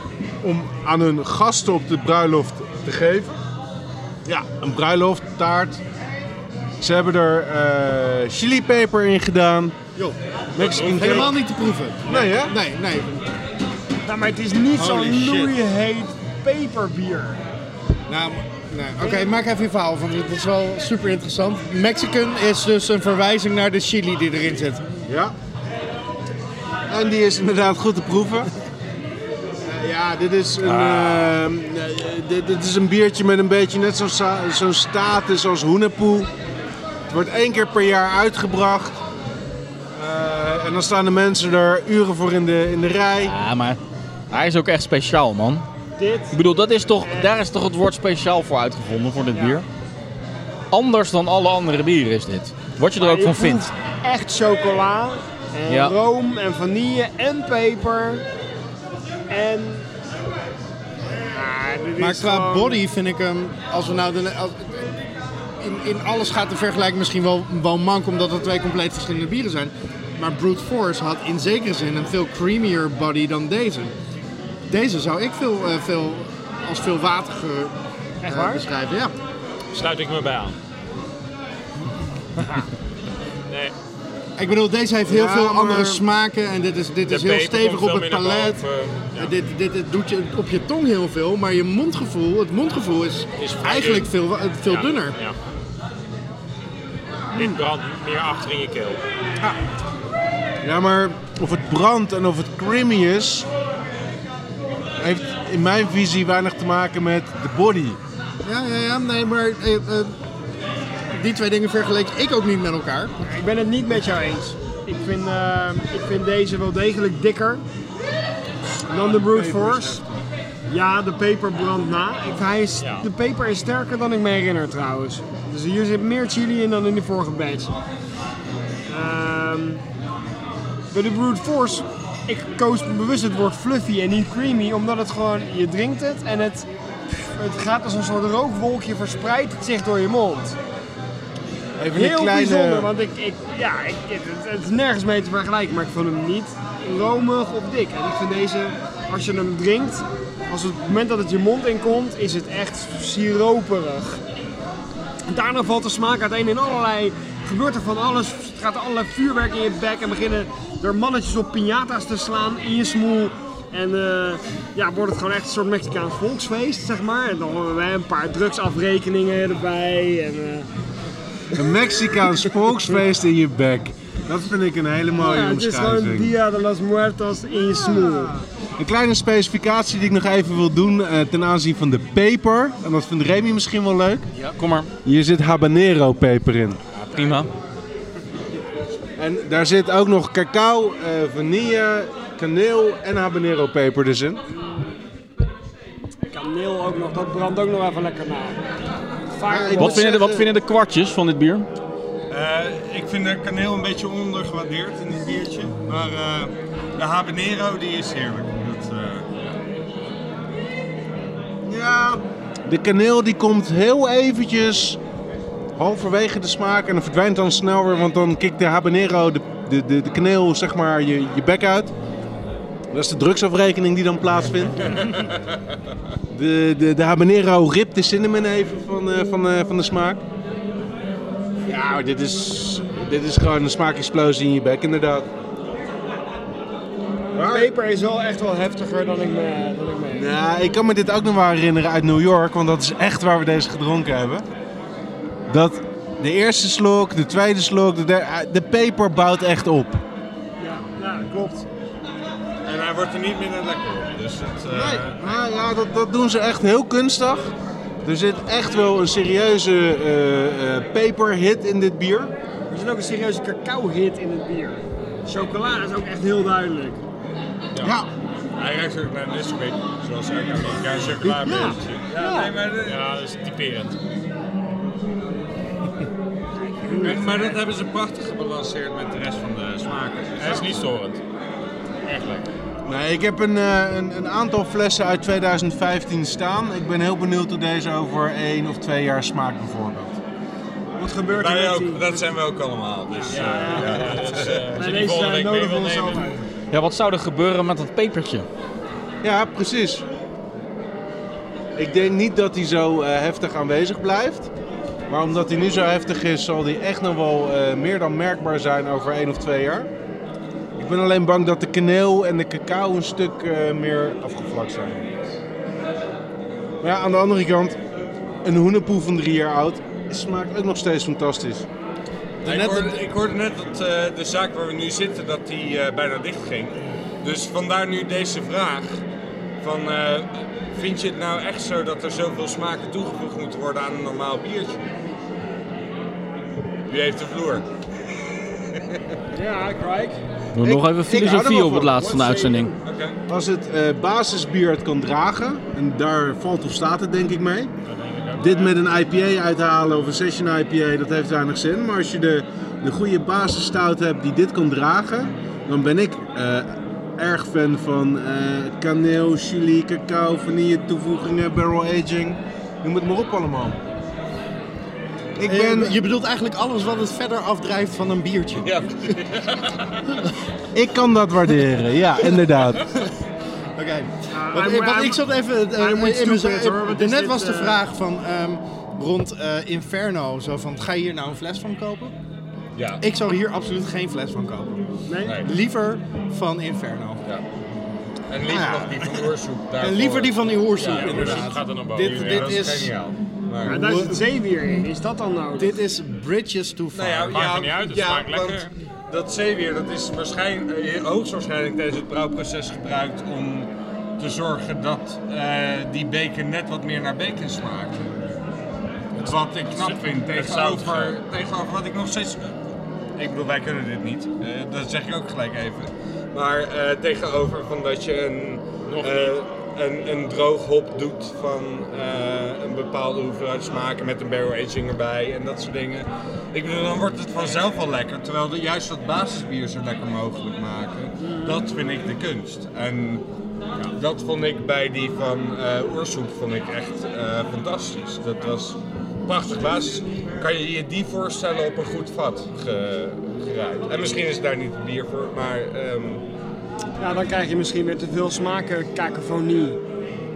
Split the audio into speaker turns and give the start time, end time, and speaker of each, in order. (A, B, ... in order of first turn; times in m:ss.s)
0:00.4-0:03.4 A
0:04.2-0:05.8 A
0:06.8-0:09.8 A
0:10.0-0:13.2 B
0:10.6-0:11.3 A
0:10.6-0:11.3 C
0:12.0-0:12.5 A
0:14.0-0:17.4 D
0:14.7-0:15.5 B
0:18.1-0:24.9 B
0:19.0-0:19.4 D
0:25.1-0:25.3 A
0:26.9-0:28.5 A
0:29.6-0:36.3 A
0:30.7-0:31.0 C
0:37.1-0:39.0 A
0:39.9-0:43.3 A
0:43.2-0:43.8 E
0:44.3-0:45.6 E
0:46.0-0:46.4 D
0:46.3-0:49.6 E
0:47.0-0:47.3 D
0:49.3-0:49.6 D
0:50.7-0:53.7 E
0:53.0-0:58.2 D
0:55.7-0:55.9 E
0:59.3-0:59.8 D
1:01.3-1:02.8 D
1:02.0-1:04.8 B
1:05.6-1:13.9 B
1:14.7-1:17.7 B
1:18.2-1:18.6 D
1:18.2-1:19.1 B
1:19.7-1:20.6 C
1:22.4-1:22.6 D
1:23.4-1:23.7 C
1:24.4-1:28.6 B
1:25.1-1:26.0 A
1:27.0-1:29.3 C
1:29.2-1:35.2 B
1:33.4-1:35.4 C
1:37.3-1:39.0 C
1:40.6-1:43.5 A
1:45.0-1:48.0 A
1:48.4-1:50.1 B
1:51.1-1:53.1 B
1:53.2-1:57.6 D
1:58.9-2:00.2 A
1:58.9-2:00.0 D
2:00.7-2:07.7 D
2:02.8-2:03.0 C
2:08.9-2:09.8 D
2:10.9-2:20.6 D
2:21.8-2:22.9 A
2:21.9-2:34.2 D
2:35.3-2:50.7 D
2:51.5-2:56.3 A
2:55.2-2:58.3 D
2:57.8-3:04.3 A
3:04.4-3:04.9 E
3:05.0-3:06.8 A
3:07.0-3:07.5 E
3:09.2-3:14.4 A
3:16.3-3:18.6 D
3:19.3-3:20.1 D
3:19.5-3:20.5 A
3:19.8-3:21.7 E
3:22.3-3:29.3 F
3:31.6-3:35.0 A
3:35.8-3:41.9 A
3:42.9-3:45.0 A
3:44.9-3:45.3 F
3:46.3-3:50.2 A
3:51.6-3:55.3 A
3:57.3-3:57.7 A
3:57.4-4:00.3 D
4:00.1-4:04.4 A
4:05.5-4:10.0 A
4:10.6-4:11.6 D
4:12.6-4:15.2 F
4:14.7-4:17.5 A
4:18.0-4:22.3 A
4:22.7-4:27.0 D
4:28.6-4:33.0 F
4:31.4-4:32.5 D
4:32.8-4:34.0 C
4:36.7-4:37.6 D
4:37.0-4:40.7 F
4:40.4-4:41.2 C
4:42.0-4:42.5 C
4:42.8-4:50.2 A
4:51.0-4:52.2 D
4:51.2-4:54.8 F
4:53.1-4:56.4 D
4:53.3-4:56.4 C
4:56.7-4:58.5 E
4:59.2-5:00.0 A
5:01.7-5:04.5 A
5:05.1-5:09.9 A
5:10.8-5:15.2 A
5:16.8-5:17.8 A
5:18.4-5:21.6 A
5:22.4-5:23.0 B
5:22.4-5:29.0 F
5:29.6-5:34.8 F
5:36.9-5:37.6 F
5:38.7-5:39.0 F
5:39.3-5:40.2 D
5:40.5-5:42.7 E
5:40.6-5:42.7 A
5:42.8-5:43.2 F
5:43.3-5:47.7 A
5:47.8-5:48.8 C
5:48.4-6:03.8 A
6:05.4-6:06.0 A
6:05.4-6:09.2 B
6:08.6-6:09.8 F
6:10.7-6:12.8 A
6:13.8-6:22.1 B
6:14.3-6:15.2 D
6:15.7-6:17.8 D
6:22.8-6:23.0 F
6:23.0-6:24.8 B
6:25.1-6:25.4 D
6:25.2-6:25.5 F
6:25.4-6:27.2 B
6:28.3-6:33.9 F
6:28.4-6:29.0 B
6:29.8-6:32.9 B
6:30.9-6:32.6 C
6:33.6-6:34.2 B
6:33.6-6:35.8 D
6:35.6-6:37.4 B
6:36.9-6:48.2 F
6:37.3-6:38.7 C
6:49.2-6:52.5 F
6:49.2-6:51.2 C
6:53.2-7:13.2 F
6:58.9-6:59.4 C
7:11.2-7:11.7 D
7:13.8-7:26.2 F
7:27.0-7:29.8 D